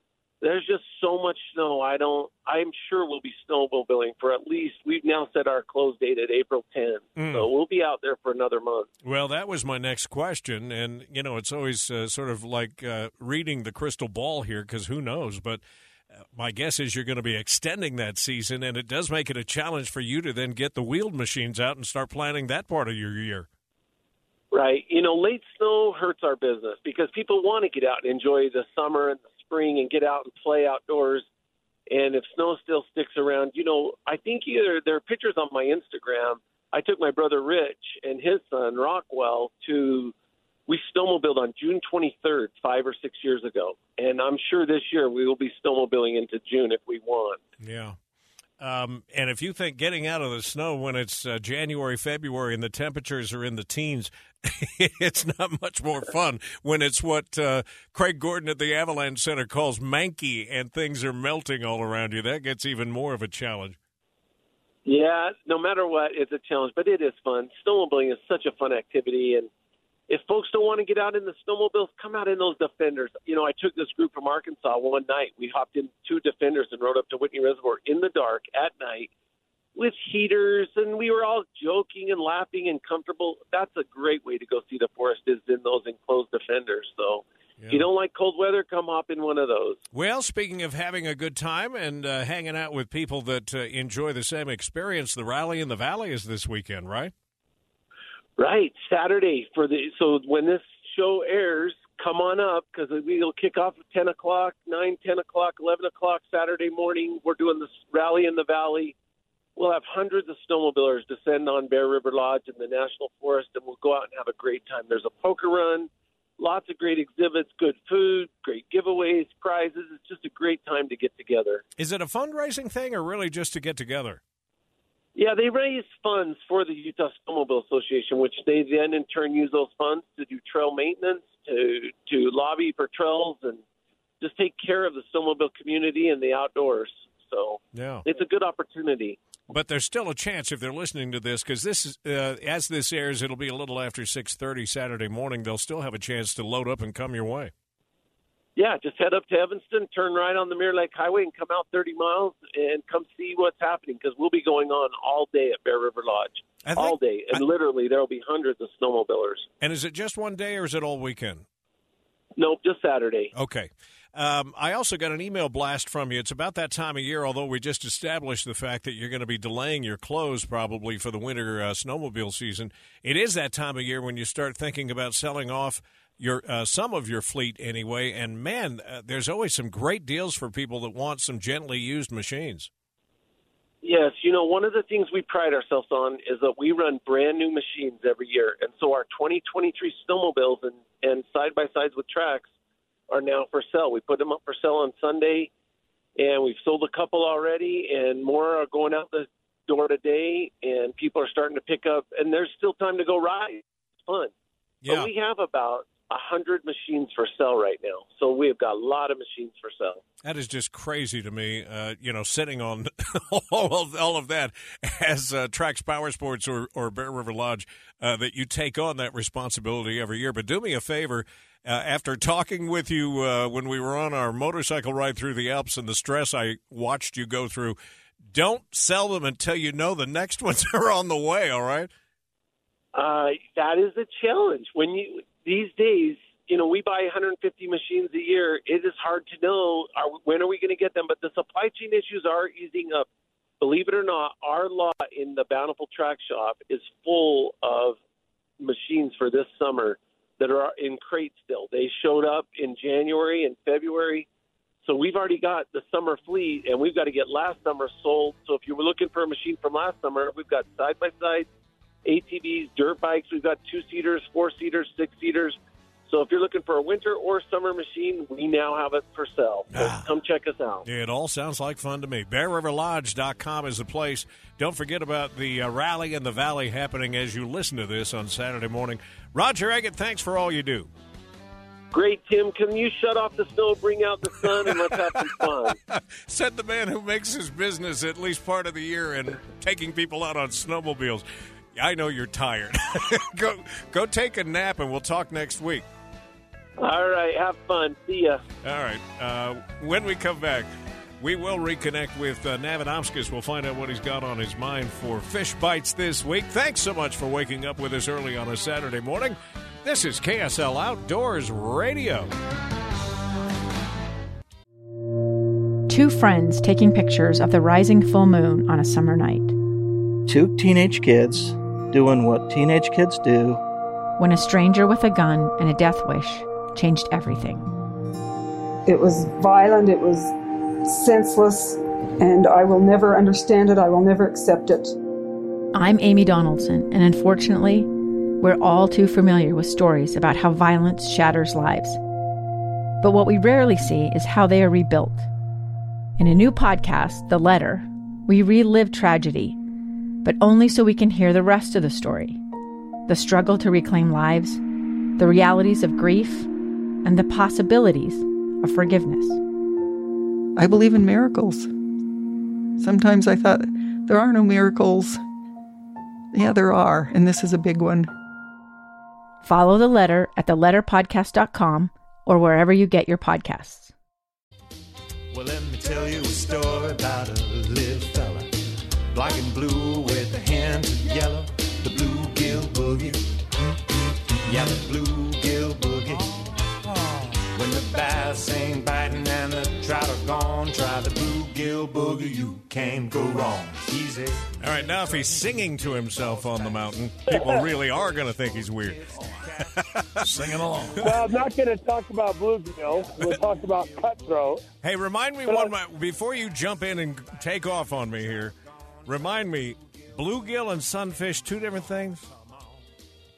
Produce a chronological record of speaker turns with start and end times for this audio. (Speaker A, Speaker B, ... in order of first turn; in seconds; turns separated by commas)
Speaker A: 0.4-8.9, Speaker B: 7.2-7.5, Speaker B: 9.0-15.6, Speaker B: 16.3-23.5, Speaker A: 24.5-31.2, Speaker A: 31.9-40.1, Speaker A: 40.7-47.4, Speaker B: 47.6-48.0, Speaker B: 48.6-63.8, Speaker A: 64.8-69.5, Speaker A: 70.1-79.1, Speaker A: 79.8-89.8, Speaker B: 87.6-87.8, Speaker B: 89.9-97.1, Speaker A: 98.4-108.9, Speaker A: 109.6-121.6, Speaker B: 121.8-124.2, Speaker A: 125.2-133.6, Speaker A: 134.2-139.2, Speaker B: 137.7-138.0, Speaker B: 139.5-147.5, Speaker A: 148.6-159.5, Speaker B: 156.6-157.4, Speaker B: 159.6-161.4, Speaker A: 162.4-163.3, Speaker B: 163.3-182.7, Speaker A: 183.8-192.4, Speaker A: 193.1-195.5, Speaker A: 196.2-204.3, Speaker B: 204.8-205.1, Speaker A: 204.8-210.0, Speaker B: 210.2-227.8, Speaker B: 228.3-231.9, Speaker A: 232.9-243.1, Speaker A: 243.6-248.0, Speaker A: 248.6-254.3, Speaker A: 254.8-261.5, Speaker A: 262.0-265.6, Speaker A: 266.1-270.8, Speaker B: 269.7-270.1, Speaker B: 270.8-280.9, Speaker A: 281.9-285.8, Speaker B: 284.4-295.9, Speaker A: 296.8-298.4, Speaker B: 298.6-300.7, Speaker B: 301.2-312.3, Speaker C: 315.9-319.5, Speaker D: 320.3-323.6, Speaker C: 324.2-327.6, Speaker E: 328.9-330.3, Speaker E: 330.8-334.9, Speaker C: 335.7-337.9, Speaker C: 338.4-342.0, Speaker C: 343.0-345.3, Speaker C: 346.2-349.6, Speaker C: 350.2-352.4, Speaker C: 353.1-354.6, Speaker C: 355.2-356.5, Speaker C: 357.0-359.4, Speaker F: 360.6-361.7, Speaker F: 362.8-365.2, Speaker F: 366.3-368.1, Speaker C: 369.4-373.9, Speaker G: 375.3-378.5, Speaker G: 379.1-383.2, Speaker G: 384.4-396.9, Speaker B: 394.6-399.0, Speaker H: 397.3-397.6, Speaker G: 397.5-399.7, Speaker B: 399.6-401.2, Speaker G: 400.2-401.6, Speaker H: 401.1-404.6, Speaker G: 402.8-404.6, Speaker B: 404.8-408.5, Speaker B: 409.1-412.2, Speaker G: 409.1-410.1, Speaker G: 412.3-412.8